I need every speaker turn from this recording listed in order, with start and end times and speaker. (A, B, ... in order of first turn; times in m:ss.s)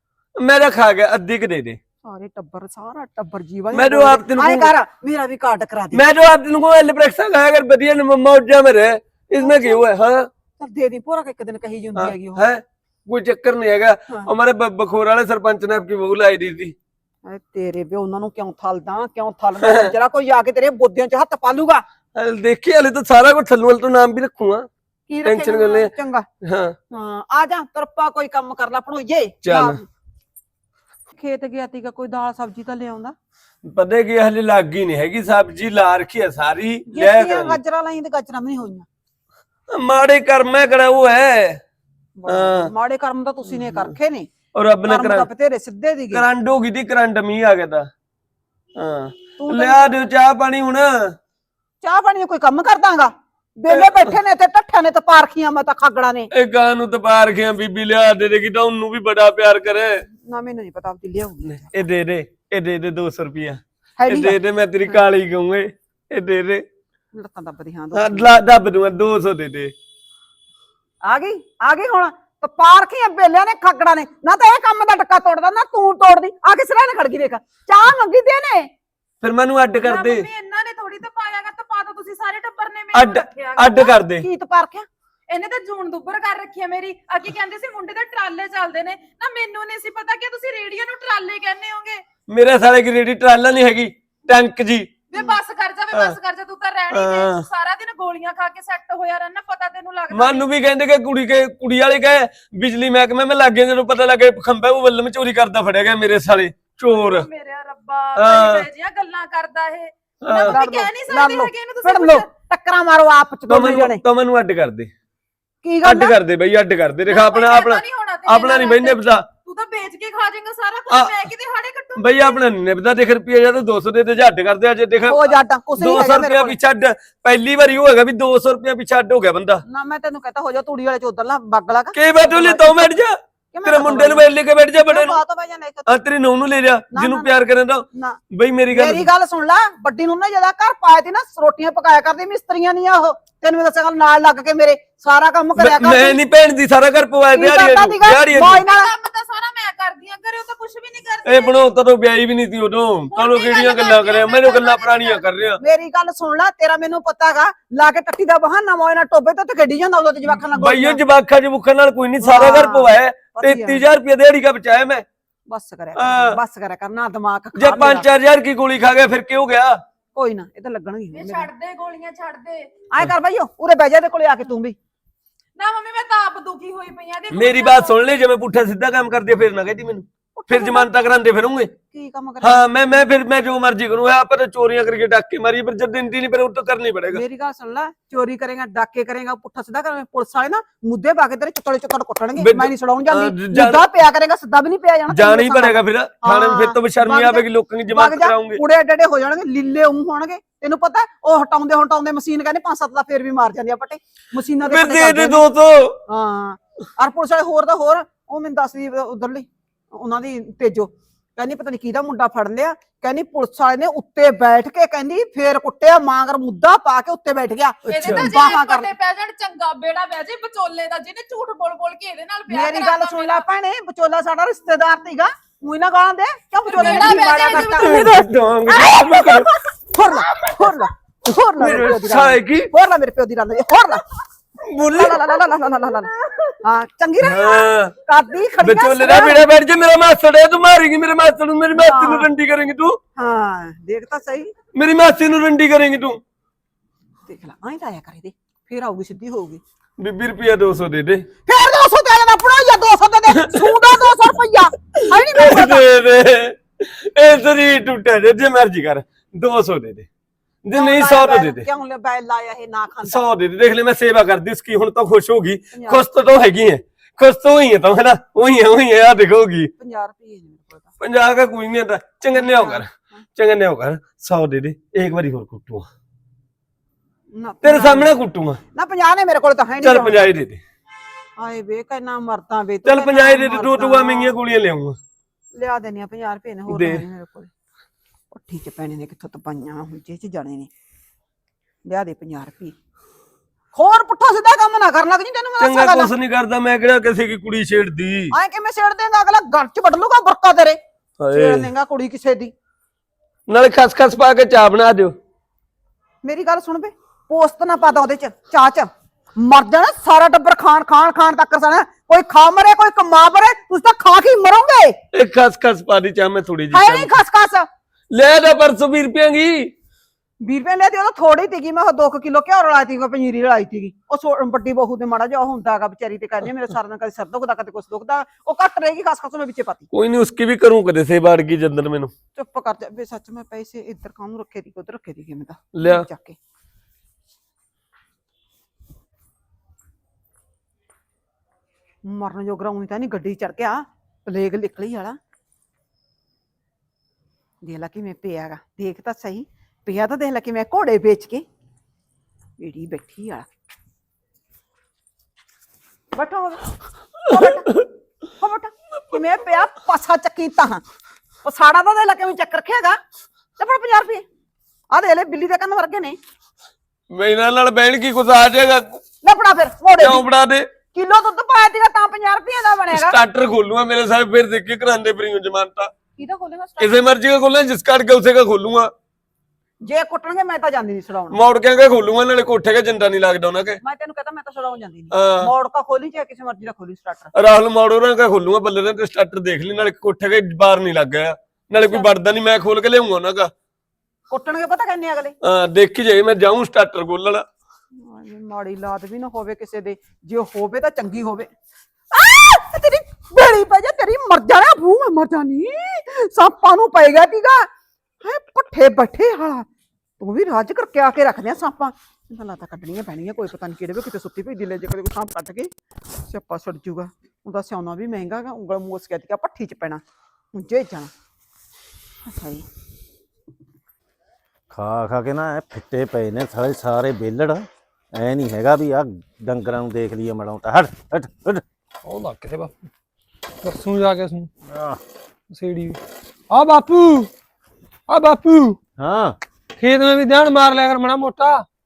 0:00.4-0:01.8 A
0:02.0-0:06.0 B
0:03.7-0:04.7 A
0:05.9-0:10.3 A
0:09.4-0:09.8 B
0:10.6-0:12.4 B
0:12.0-0:16.7 A
0:17.2-0:21.8 B
0:19.6-0:19.9 A
0:22.2-0:24.7 A
0:25.1-0:26.2 B
0:25.2-0:25.9 A
0:26.4-0:26.8 A
0:26.9-0:29.8 B
0:29.4-0:29.8 A
0:31.1-0:33.1 B
0:33.6-0:37.6 A
0:36.9-0:38.8 B
0:39.7-0:41.6 A
0:42.2-0:44.3 B
0:42.3-0:42.7 A
0:43.5-0:43.9 A
0:44.5-0:45.3 A
0:44.8-0:46.2 B
0:46.1-0:47.9 A
0:48.8-0:51.1 A
0:49.4-0:49.9 B
0:51.8-0:56.3 B
0:53.7-0:54.1 A
0:56.3-1:00.0 A
1:00.2-1:01.7 B
1:01.5-1:06.6 A
1:04.0-1:05.0 B
1:07.1-1:08.4 B
1:07.9-1:09.7 A
1:11.0-1:18.7 B
1:19.2-1:20.2 A
1:19.8-1:24.0 C
1:22.9-1:24.2 A
1:24.2-1:24.9 B
1:25.3-1:32.0 C
1:32.3-1:34.9 A
1:35.1-1:40.5 C
1:36.9-1:37.4 A
1:40.1-1:47.3 A
1:46.8-1:52.3 C
1:48.2-1:48.7 A
1:50.2-1:50.6 A
1:50.4-1:54.0 B
1:53.5-1:54.9 A
1:55.6-1:56.1 B
1:55.8-1:59.2 A
1:57.0-2:02.4 C
2:00.9-2:01.1 A
2:02.0-2:09.6 A
2:05.1-2:06.6 B
2:09.6-2:12.9 B
2:11.9-2:15.2 A
2:13.5-2:14.3 B
2:14.8-2:15.9 B
2:15.9-2:19.1 A
2:16.9-2:17.3 B
2:17.9-2:18.2 B
2:18.7-2:26.2 B
2:25.6-2:28.6 A
2:27.3-2:28.9 B
2:28.6-2:31.7 C
2:31.2-2:35.6 A
2:33.1-2:35.2 C
2:35.6-2:41.0 B
2:40.5-2:45.0 A
2:42.2-2:43.8 B
2:45.5-2:48.0 B
2:46.0-2:46.4 A
2:47.6-2:49.8 A
2:50.1-2:51.5 B
2:51.1-2:52.7 C
2:52.9-2:54.8 B
2:55.6-2:58.0 C
2:57.3-3:01.7 A
3:00.4-3:00.9 B
3:01.9-3:02.6 B
3:02.4-3:07.2 A
3:07.1-3:25.4 B
3:12.4-3:13.8 A
3:15.1-3:18.6 A
3:24.6-3:26.0 A
3:26.1-3:38.9 B
3:37.9-3:38.3 A
3:37.9-3:43.4 C
3:42.5-3:48.0 B
3:46.6-3:48.2 C
3:47.6-3:49.5 A
3:49.9-3:54.0 B
3:51.6-3:52.7 A
3:54.7-3:55.2 A
3:54.9-3:56.1 B
3:56.6-3:59.4 B
3:57.2-3:57.9 A
3:58.6-4:03.0 A
4:01.7-4:02.3 B
4:03.2-4:04.5 B
4:04.7-4:06.2 A
4:07.2-4:09.6 B
4:10.0-4:11.2 A
4:11.4-4:15.8 B
4:15.3-4:20.1 A
4:20.6-4:21.6 A
4:20.7-4:23.2 B
4:23.0-4:29.7 A
4:25.7-4:26.0 B
4:29.8-4:30.9 B
4:31.0-4:35.9 A
4:32.3-4:33.2 B
4:37.3-4:38.1 B
4:37.6-4:38.6 A
4:38.7-4:40.3 B
4:39.8-4:40.6 A
4:41.4-4:44.3 B
4:42.8-4:45.0 A
4:45.5-4:47.5 B
4:46.7-4:47.0 A
4:48.3-4:50.7 B
4:51.8-4:52.7 B
4:53.7-4:56.1 B
4:55.6-4:58.3 A
4:58.3-5:00.8 B
5:01.2-5:01.7 A
5:01.3-5:02.5 B
5:03.5-5:05.1 A
5:06.2-5:15.0 B
5:15.1-5:17.1 A
5:16.7-5:17.7 B
5:18.1-5:19.7 A
5:20.4-5:29.9 B
5:29.9-5:32.1 A
5:32.3-5:36.4 B
5:35.7-5:36.0 A
5:42.0-5:45.2 B
5:47.6-5:51.4 B
5:52.6-5:53.5 B
5:56.1-5:56.6 B
5:57.2-5:57.7 B
5:58.4-6:00.8 B
6:01.4-6:03.0 B
6:03.6-6:04.2 B
6:04.9-6:06.2 B
6:07.1-6:09.0 A
6:09.2-6:10.2 B
6:10.0-6:10.7 A
6:10.9-6:13.2 B
6:12.9-6:15.9 A
6:16.2-6:17.0 B
6:16.8-6:18.9 A
6:19.8-6:21.4 B
6:21.3-6:23.8 A
6:23.8-6:27.3 B
6:25.1-6:25.5 A
6:27.3-6:33.5 A
6:31.8-6:32.1 B
6:34.3-6:35.3 B
6:35.4-6:37.4 A
6:38.0-6:41.5 B
6:42.1-6:47.7 B
6:48.2-6:49.7 B
6:50.2-7:00.0 B
7:00.5-7:01.1 B
7:02.2-7:02.6 B
7:04.7-7:11.6 D
7:12.0-7:12.9 E
7:13.6-7:14.5 E
7:14.6-7:15.0 D
7:15.5-7:16.0 E
7:16.5-7:17.3 E
7:18.1-7:18.8 E
7:19.0-7:19.4 D
7:19.8-7:21.6 E